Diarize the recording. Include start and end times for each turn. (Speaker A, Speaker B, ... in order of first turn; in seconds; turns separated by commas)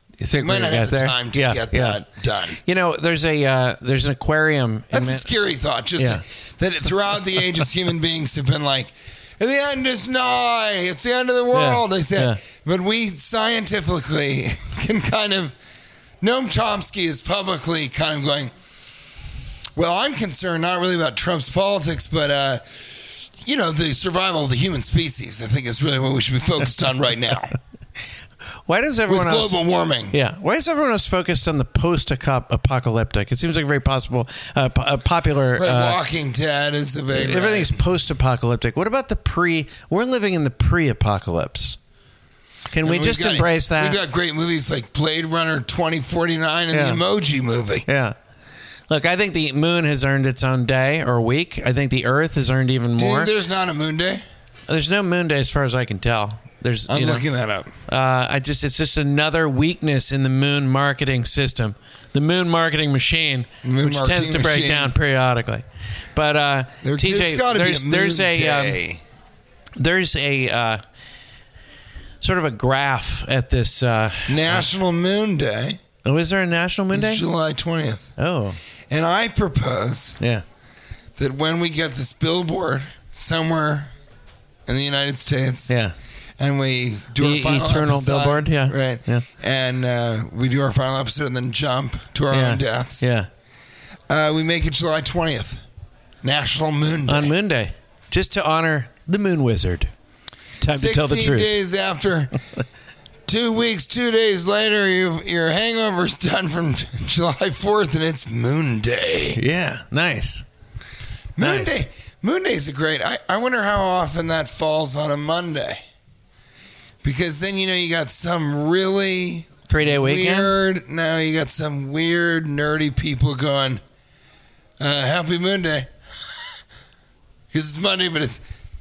Speaker A: 0.2-2.0, Speaker B: 0.4-2.6, Speaker A: 2.6-5.3, Speaker B: 4.9-15.6, Speaker A: 6.0-6.2, Speaker A: 11.5-12.4, Speaker B: 16.2-18.5, Speaker B: 19.7-27.5, Speaker A: 28.7-29.6, Speaker B: 29.1-30.1, Speaker A: 30.1-36.0, Speaker B: 35.5-37.8, Speaker A: 37.1-41.8, Speaker A: 42.7-44.0, Speaker B: 42.8-47.9, Speaker A: 46.7-47.0, Speaker A: 47.9-48.1, Speaker A: 48.9-53.3, Speaker B: 53.0-54.2, Speaker A: 54.7-57.2, Speaker B: 56.9-57.7, Speaker A: 57.9-68.8, Speaker B: 63.6-64.9, Speaker B: 66.8-69.0, Speaker A: 69.8-70.8, Speaker A: 72.2-74.7, Speaker B: 74.3-75.8, Speaker A: 76.0-77.2, Speaker B: 76.9-78.1, Speaker A: 78.2-78.6, Speaker B: 78.9-80.2, Speaker B: 81.2-83.9, Speaker B: 84.7-85.7, Speaker A: 85.7-85.9, Speaker B: 86.4-93.0, Speaker A: 87.2-89.2, Speaker A: 92.3-93.3, Speaker B: 94.1-95.6, Speaker B: 96.2-97.3, Speaker A: 97.1-99.9, Speaker A: 100.6-101.5, Speaker B: 100.7-102.3, Speaker B: 103.2-109.4, Speaker A: 109.3-110.5, Speaker B: 111.4-115.8, Speaker A: 111.4-111.8, Speaker B: 117.0-123.8, Speaker A: 119.7-120.5, Speaker B: 124.8-125.9, Speaker B: 127.5-128.4